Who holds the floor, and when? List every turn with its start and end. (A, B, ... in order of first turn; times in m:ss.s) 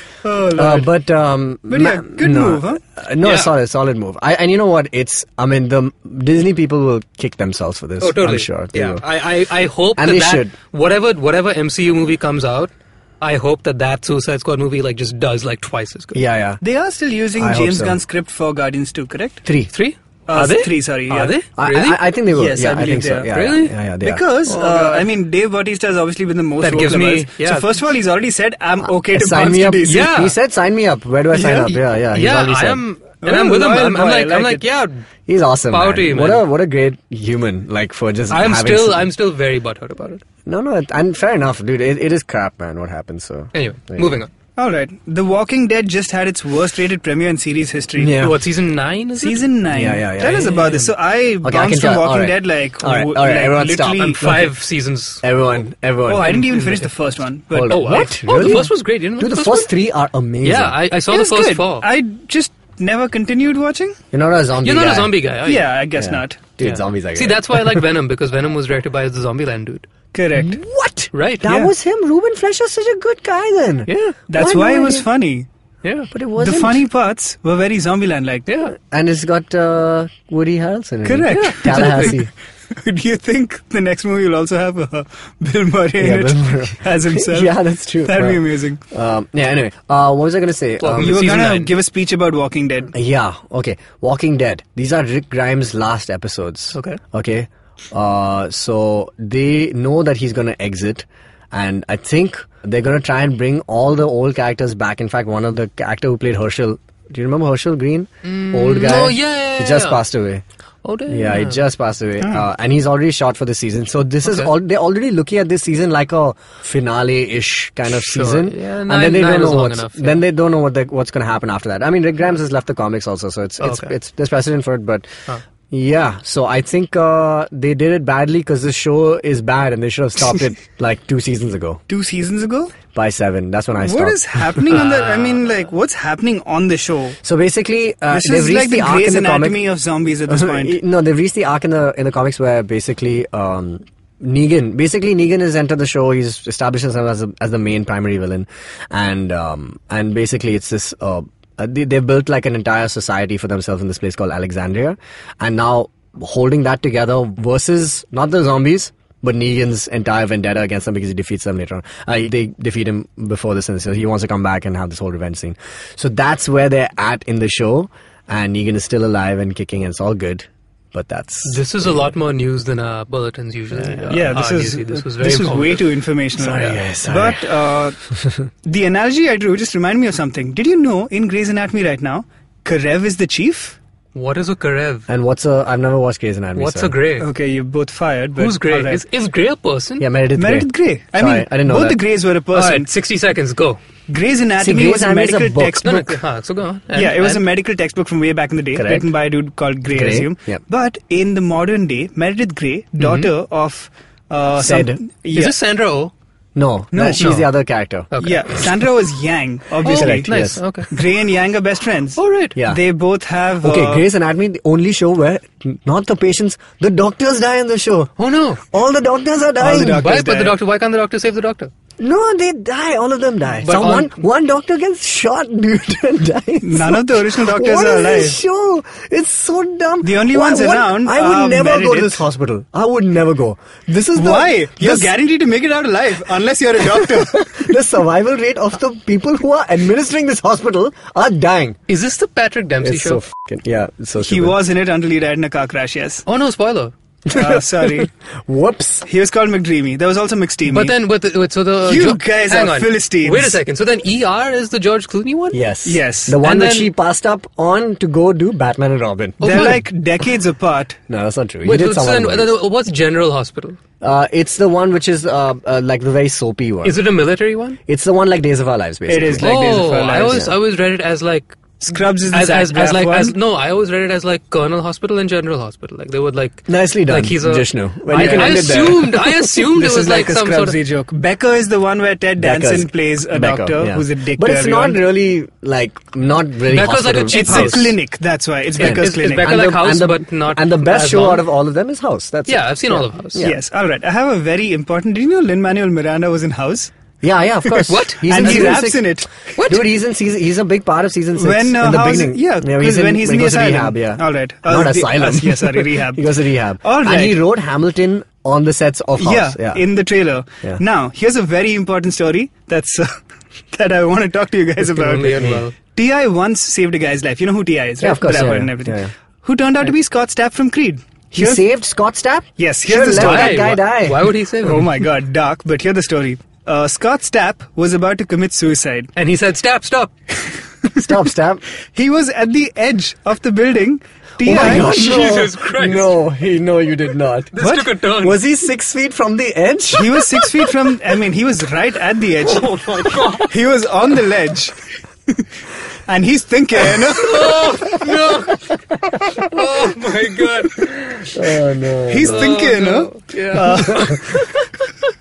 0:00.2-0:00.9 A
0:00.6-0:09.0 B
0:01.7-0:02.8 A
0:03.2-0:03.5 C
0:08.0-0:16.2 C
0:10.0-0:10.5 B
0:16.1-0:16.6 B
0:16.6-0:19.4 A
0:17.4-0:18.0 B
0:19.4-0:19.7 B
0:19.7-0:22.0 C
0:20.3-0:21.4 A
0:21.6-0:24.2 B
0:22.3-0:23.3 A
0:23.3-0:23.8 C
0:24.0-0:30.1 A
0:24.4-0:25.1 C
0:26.6-0:27.8 C
0:29.1-0:32.8 B
0:29.8-0:30.4 C
0:31.3-0:35.0 C
0:33.2-0:34.6 A
0:35.3-0:39.1 B
0:35.7-0:36.5 C
0:38.3-0:40.2 C
0:40.5-0:44.2 B
0:43.5-0:44.3 C
0:44.6-0:48.2 A
0:48.0-0:48.4 B
0:48.2-0:49.5 C
0:49.2-0:54.5 A
0:49.7-0:50.8 B
0:50.3-0:50.8 C
0:51.4-0:54.4 B
0:54.0-0:55.2 C
0:55.2-0:56.4 B
0:56.1-0:58.2 A
0:56.2-0:56.9 C
0:57.5-1:00.8 B
0:57.7-0:59.7 C
1:00.4-1:01.9 C
1:01.1-1:04.0 A
1:04.1-1:05.2 B
1:04.6-1:05.7 C
1:05.4-1:06.4 A
1:06.0-1:07.8 B
1:06.6-1:09.9 C
1:10.1-1:10.6 A
1:10.3-1:15.1 B
1:11.1-1:11.5 C
1:11.4-1:11.7 A
1:13.9-1:14.2 C
1:14.3-1:15.5 A
1:15.8-1:16.1 C
1:16.1-1:16.8 B
1:16.4-1:18.5 A
1:18.5-1:18.7 C
1:18.7-1:22.3 B
1:21.0-1:22.2 A
1:21.3-1:22.2 C
1:22.8-1:28.8 A
1:26.0-1:31.4 B
1:30.8-1:31.7 C
1:31.0-1:32.9 A
1:32.9-1:50.4 B
1:36.7-1:37.0 C
1:48.2-1:50.0 C
1:50.8-1:51.6 C
1:51.1-2:05.1 B
1:52.2-1:52.5 A
1:54.2-1:54.5 C
1:57.9-2:00.2 C
2:03.6-2:03.9 C
2:05.7-2:11.8 B
2:11.9-2:12.8 A
2:12.9-2:14.5 B
2:13.8-2:17.2 A
2:14.7-2:15.5 C
2:17.2-2:19.6 B
2:18.1-2:20.8 A
2:20.3-2:51.9 B
2:51.4-2:55.8 C
2:54.1-2:58.0 A
2:56.4-2:57.4 B
2:58.6-3:03.8 A
3:04.2-3:05.1 C
3:05.1-3:06.9 B
3:06.6-3:07.3 C
3:07.2-3:09.0 A
3:08.4-3:10.1 C
3:10.0-3:12.0 B
3:10.4-3:12.9 A
3:12.5-3:13.8 C
3:14.1-3:16.2 A
3:14.6-3:15.9 B
3:15.8-3:17.4 C
3:16.9-3:25.6 A
3:18.8-3:19.0 B
3:19.9-3:20.6 B
3:23.0-3:23.3 C
3:24.6-3:25.0 B
3:25.3-3:26.1 C
3:26.6-3:28.1 B
3:26.9-3:27.4 A
3:27.2-3:27.5 C
3:28.1-3:28.6 C
3:28.2-3:30.3 A
3:29.8-3:30.9 C
3:29.8-3:30.6 B
3:30.9-3:34.1 A
3:32.2-3:32.6 C
3:33.6-3:40.1 B
3:38.2-3:38.6 C
3:39.6-3:40.6 A
3:39.8-3:41.7 C
3:42.0-3:55.1 B
3:43.6-3:44.2 C
3:46.6-3:48.4 A
3:50.0-3:52.2 A
3:54.2-3:57.7 A
3:56.8-4:01.8 B
4:01.9-4:03.2 C
4:02.8-4:04.6 B
4:04.2-4:06.2 A
4:06.3-4:07.0 C
4:07.3-4:09.1 B
4:07.3-4:08.1 A
4:09.0-4:11.0 A
4:10.7-4:15.6 C
4:11.8-4:13.6 A
4:15.5-4:19.8 B
4:15.8-4:16.4 A
4:16.4-4:16.9 C
4:19.4-4:19.8 C
4:19.4-4:21.0 A
4:21.1-4:22.6 B
4:21.6-4:23.8 C
4:24.0-4:27.0 B
4:26.8-4:27.8 C
4:27.9-4:29.5 B
4:29.1-4:30.5 A
4:29.4-4:40.8 C
4:30.2-4:30.5 B
4:31.8-4:33.4 A
4:36.7-4:39.4 B
4:38.1-4:45.0 A
4:42.4-4:47.9 B
4:46.6-4:47.9 C
4:47.3-4:49.7 A
4:48.8-4:51.5 C
4:48.8-4:53.6 B
4:52.5-4:53.5 C
4:53.4-4:56.9 A
4:57.2-5:09.8 B
4:57.7-4:59.3 A
4:57.9-4:58.9 C
4:59.6-4:59.9 C
5:01.4-5:06.3 A
5:06.8-5:07.4 A
5:09.2-5:13.1 A
5:13.7-5:21.6 A
5:14.8-5:15.8 C
5:15.4-5:15.6 B
5:18.0-5:19.1 B
5:18.3-5:18.7 C
5:21.3-5:24.3 B
5:22.6-5:23.8 A
5:23.1-5:25.0 C
5:24.6-5:29.1 A
5:29.2-5:30.1 C
5:30.9-5:31.6 B
5:31.9-5:34.9 A
5:34.4-5:37.5 B
5:34.5-5:36.1 C
5:37.5-5:38.4 C
5:37.6-5:37.9 A
5:38.2-5:40.2 B
5:39.9-5:42.7 A
5:42.4-5:43.5 C
5:43.5-5:44.8 A
5:46.1-5:48.0 A
5:47.1-5:51.5 C
5:51.3-5:52.5 B
5:52.1-5:54.2 A
5:52.2-5:54.4 C
5:53.8-5:54.5 B